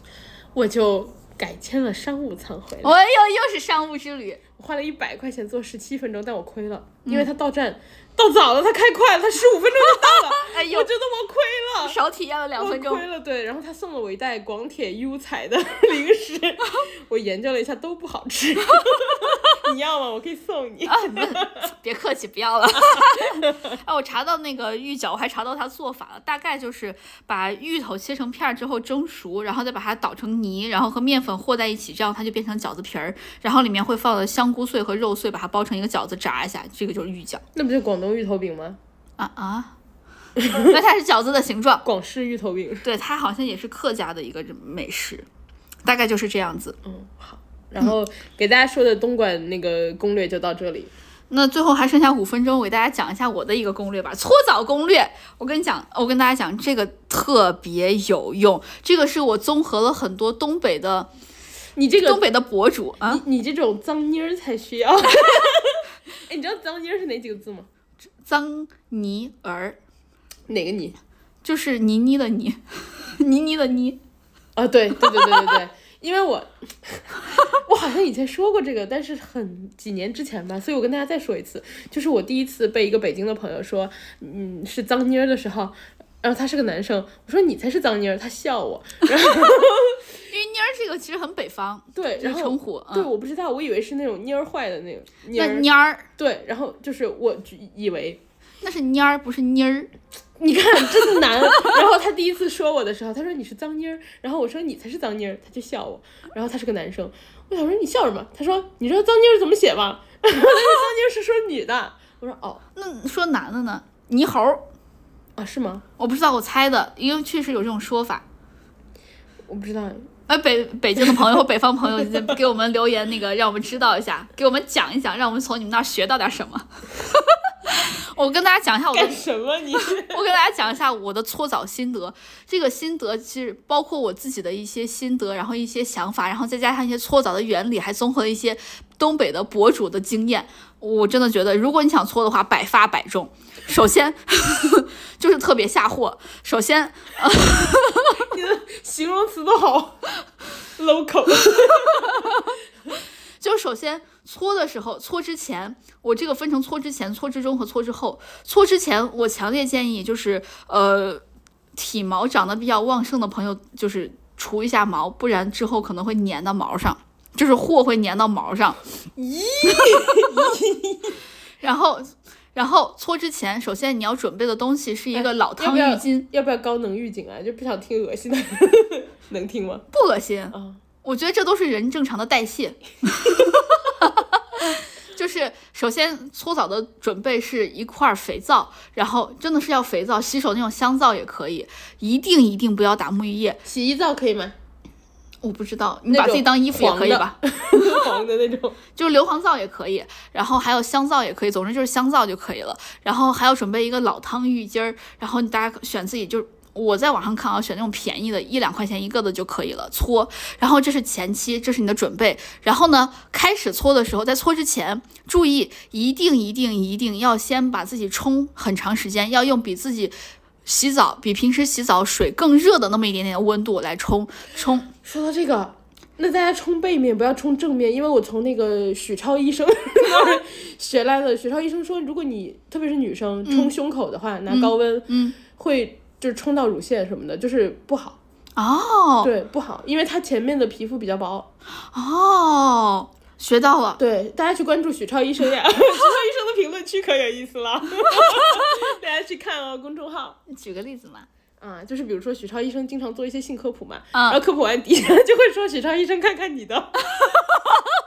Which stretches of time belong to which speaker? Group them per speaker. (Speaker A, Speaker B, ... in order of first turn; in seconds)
Speaker A: 0.6-3.0, 4.6-12.0, 12.6-21.7, 23.0-23.5, 37.5-38.8, 40.4-40.8, 41.8-42.9, 46.8-50.9, 61.8-62.2, 63.1-67.7, 70.5-71.0, 74.6-90.0, 91.9-95.7, 96.2-98.2, 100.4-112.6, 115.4-115.8, 119.5-120.1, 121.0-122.4, 128.9-130.2, 148.2-150.1, 150.6-152.5, 169.2-171.2, 175.1-179.9, 180.5-180.8, 193.7-194.6, 196.1-198.8, 225.0-238.2, 239.2-241.5, 244.0-250.4, 251.6-257.4
Speaker B: 2.8-4.4, 10.4-10.9, 11.8-13.0, 20.9-37.4, 39.2-39.7, 40.5-41.9, 42.8-45.3, 45.9-46.8, 51.3-61.1, 62.0-63.2, 68.2-69.8, 71.4-74.0, 90.3-93.1, 95.3-96.1, 98.6-99.9, 112.8-114.7, 116.0-118.2, 120.3-129.2, 130.0-148.2, 151.9-152.6, 153.4-161.2, 161.8-168.8, 171.6-176.3, 179.9-193.6, 195.4-198.0, 199.0-220.1, 220.7-224.9, 233.5-233.7, 234.5-235.4, 238.6-239.3, 241.9-244.0, 248.2-248.7, 250.5-251.3, 254.1-254.4